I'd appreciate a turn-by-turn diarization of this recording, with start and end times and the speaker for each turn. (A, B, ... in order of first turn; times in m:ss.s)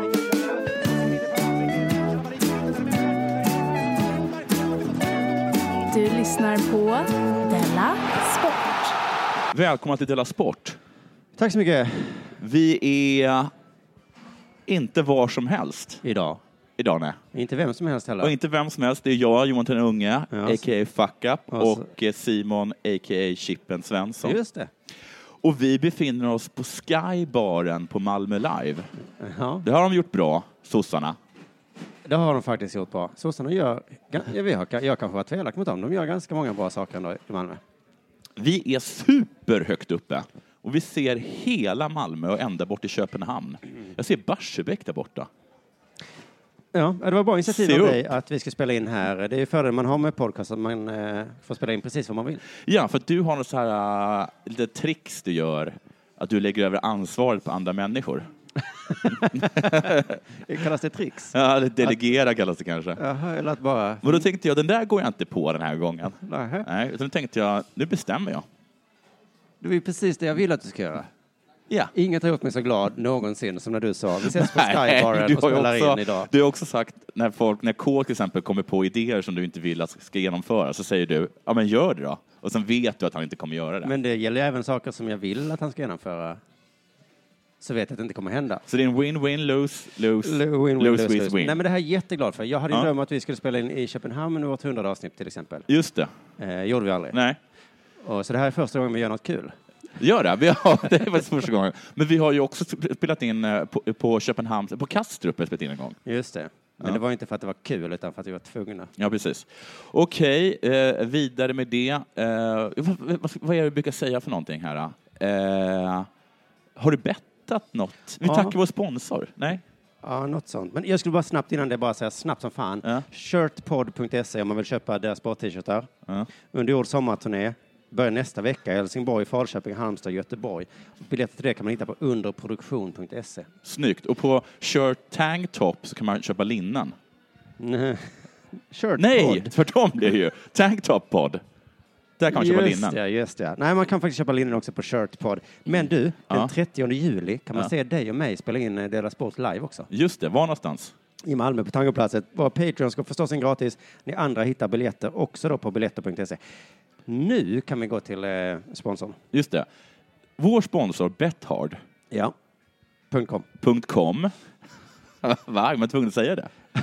0:05.9-0:08.9 A
0:09.5-0:10.8 B
0:11.4-0:12.4 C
0:12.4-0:13.5 B
0:14.7-0:16.0 B
0:16.0-0:16.4 C
0:16.8-0:17.2 B
0:17.3-0:18.3 C
0:18.2-0:24.4 B
0:20.3-0:20.6 C
0:21.5-0:21.8 C
0:24.2-0:24.7 C
0:25.4-0:28.9 B
0:29.2-0:29.6 C
0:29.6-0:31.2 B
0:32.1-0:37.6 C
0:38.4-0:45.3 B
0:46.7-0:52.4 C
0:47.5-0:48.1 B
0:52.6-0:58.3 B
0:58.9-0:59.7 C
0:59.0-1:00.2 B
1:00.4-1:01.4 C
1:01.3-1:03.0 B
1:03.0-1:04.2 C
1:04.0-1:08.5 B
1:06.3-1:06.7 C
1:09.6-1:11.1 C
1:11.9-1:16.3 C
1:14.2-1:23.9 B
1:23.8-1:26.4 C
1:27.6-1:28.6 C
1:28.7-1:31.6 B
1:30.2-1:35.7 C
1:35.7-1:36.1 B
1:36.4-1:37.2 C
1:37.1-1:37.4 B
1:38.0-1:39.6 C
1:40.0-1:46.0 B
1:46.0-1:48.9 C
1:49.0-1:56.1 B
1:56.8-1:59.6 B
1:58.2-1:58.6 C
2:00.0-2:05.9 C
2:06.4-2:13.5 C
2:13.6-2:17.0 B
2:17.6-2:18.2 C
2:18.7-2:19.5 C
2:19.0-2:21.4 B
2:22.2-2:23.0 B
2:22.3-2:29.9 C
2:25.7-2:26.5 B
2:29.9-2:30.9 B
2:31.3-2:36.4 C
2:37.1-2:39.2 C
2:39.3-2:39.7 B
2:40.4-2:41.8 B
2:43.1-2:43.5 C
2:43.6-2:44.3 B
2:45.2-2:46.5 B